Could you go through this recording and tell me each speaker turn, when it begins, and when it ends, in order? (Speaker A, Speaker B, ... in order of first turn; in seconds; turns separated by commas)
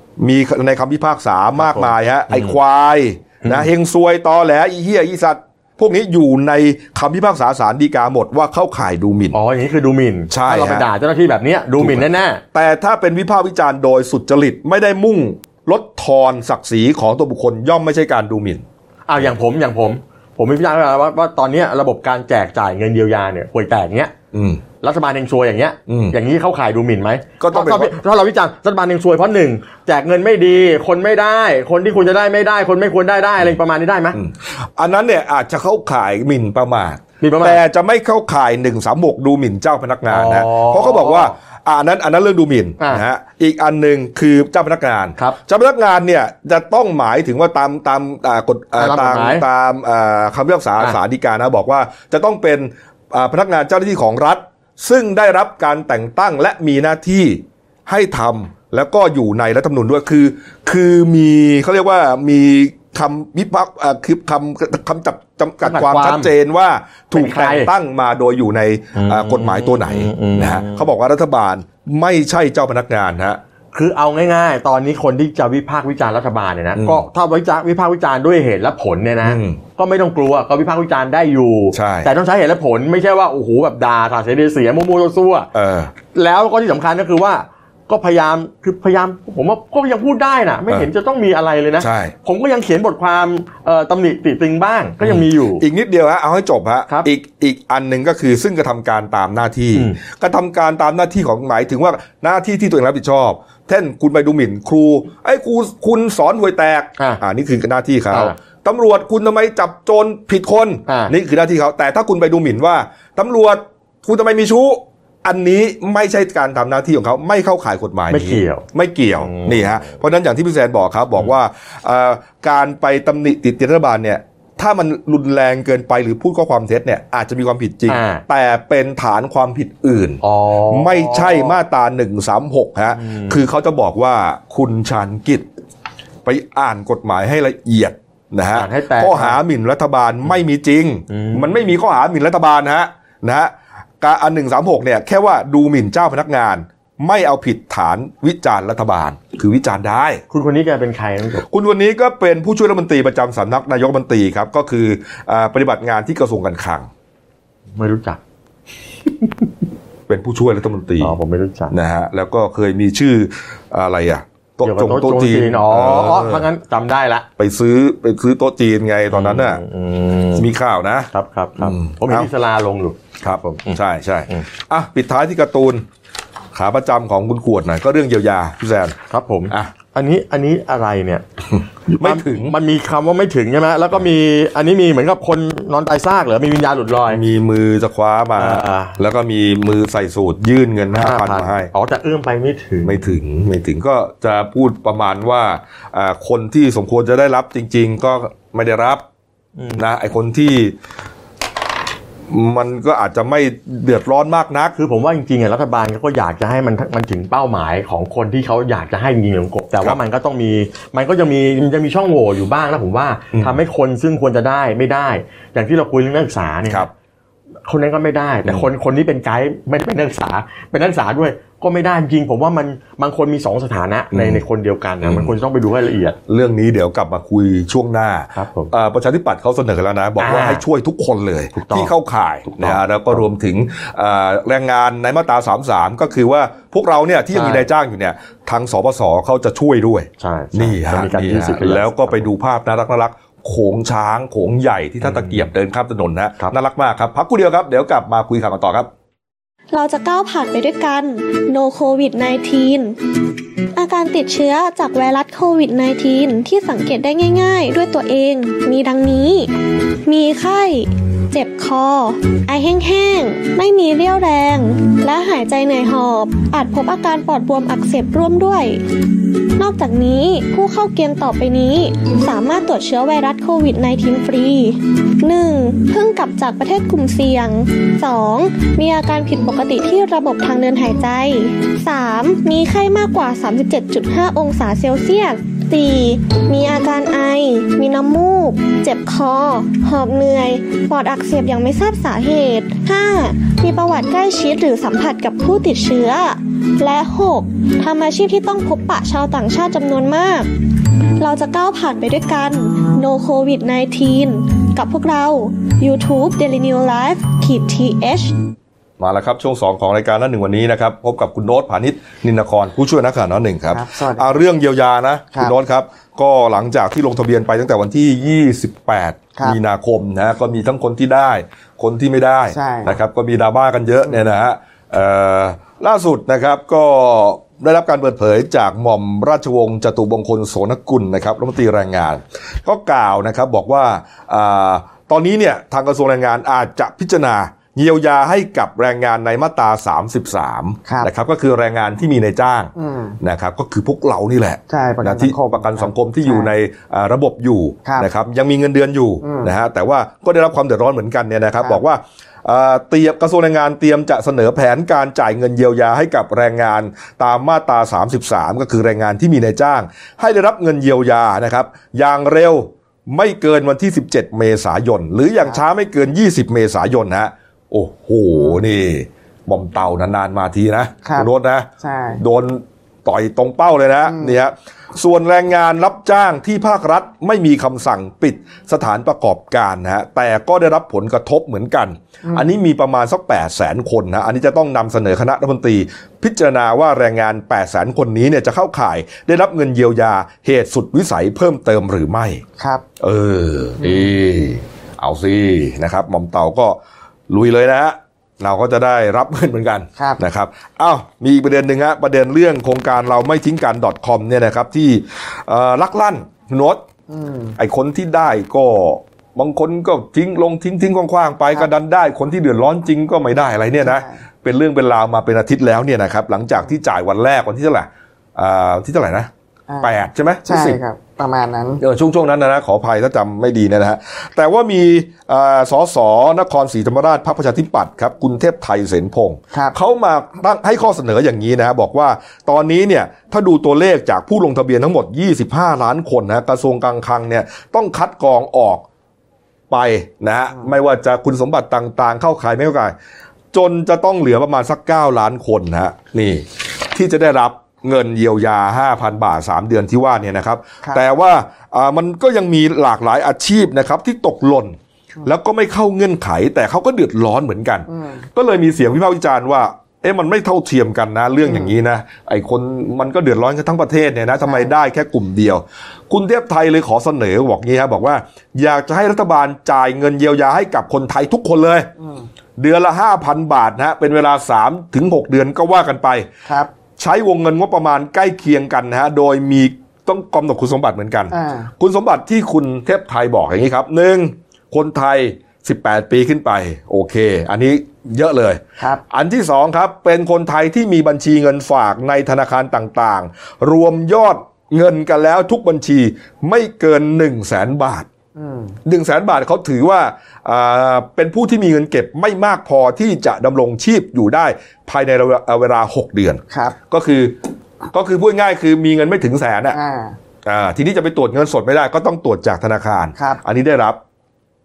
Speaker A: 0.2-9.4, Speaker B: 1.6-2.6, Speaker B: 3.4-3.7, Speaker B: 9.3-12.4, Speaker A: 10.3-10.9, Speaker A: 11.8-18.6, Speaker B: 19.1-24.1, Speaker A: 24.3-24.6, Speaker B: 24.8-34.2, Speaker A: 25.9-26.1, Speaker A: 27.4-27.9, Speaker A: 34.1-73.4, Speaker B: 37.2-37.6, Speaker B: 40.1-41.3, Speaker B: 48.8-49.4, Speaker B: 65.6-66.3, Speaker B: 67.1-67.7, Speaker B: 68.9-70.8, Speaker B: 73.7-85.5, Speaker A: 76.8-77.0, Speaker A: 79.2-79.6, Speaker A: 81.7-82.1, Speaker A: 85.5-85.9, Speaker B: 86.1-95.6, Speaker A: 91.8-92.1, Speaker A: 95.0-135.4, Speaker B: 110.9-111.1, Speaker B: 118.1-118.6, Speaker B: 119.2-119.9, Speaker B: 127.9-128.2, Speaker B: 130.2-131.6, Speaker B: 132.9-133.4, Speaker A: 136.2-150.2, Speaker B: 138.5-139.4, Speaker B: 141.1-141.6, Speaker B: 150.3-151.4, Speaker A: 151.5-156.9, Speaker B: 157.7-158.2, Speaker B: 159.2-159.5, Speaker A: 160.1-161.1, Speaker B: 161.0-161.7, Speaker A: 161.7-166.5, Speaker B: 164.6-167.3, Speaker A: 167.4-169.6, Speaker B: 169.1-170.5, Speaker A: 170.3-172.3, Speaker B: 171.1-174.4, Speaker A: 173.2-175.8, Speaker A: 176.5-178.9, Speaker B: 179.1-181.3, Speaker A: 181.6-182.5, Speaker B: 181.9-187.2, Speaker A: 187.1-191.7, Speaker B: 188.3-189.0, Speaker B: 190.9-193.1, Speaker A: 192.8-199.0, Speaker B: 199.6-199.8, Speaker A: 199.8-200.8, Speaker A: 202.3-204.7, Speaker B: 204.8-216.9, Speaker A: 213.3-213.6, Speaker B: 217.7-226.2, Speaker A: 224.1-224.4, Speaker A: 225.0-225.3, Speaker A: 226.3-248.9, Speaker B: 228.3-228.7, Speaker B: 230.2-230.6, Speaker B: 231.5-231.9, Speaker B: 232.5-233.2, Speaker B: 237.3-237.7, Speaker B: 240.2-242.3, Speaker B: 245.0-245.5, Speaker C: 249.7-253.0, Speaker C: 253.7-259.5, Speaker C: 260.1-268.8, Speaker C: 269.6-300.5, Speaker C: 301.2-308.4, Speaker A: 309.0-392.4, Speaker D: 313.7-314.4, Speaker D: 322.5-322.9, Speaker D: 342.8-343.2, Speaker D: 344.7-346.5, Speaker D: 349.2-349.5, Speaker D: 368.3-368.6, Speaker D: 371.8-372.2, Speaker D: 374.1-374.4, Speaker D: 382.2-382.5, Speaker D: 392.6-392.8, Speaker A: 393.0-396.8, Speaker D: 393.8-394.1, Speaker A: 397.3-406.8, Speaker D: 407.1-407.6, Speaker A: 407.6-419.3, Speaker D: 413.8-414.2, Speaker A: 419.8-420.8, Speaker D: 420.4-421.8, Speaker A: 421.8-438.8, Speaker A: 439.7-442.9, Speaker A: 443.5-471.9, Speaker D: 457.9-458.2, Speaker D: 461.4-461.8, Speaker D: 464.4-464.7, Speaker D: 472.0-472.2, Speaker A: 472.6-476.3, Speaker A: 477.0-498.1, Speaker D: 481.3-481.7, Speaker D: 498.4-498.8, Speaker A: 498.8-507.4, Speaker A: 507.9-509.8, Speaker D: 509.7-510.2, Speaker A: 510.4-514.0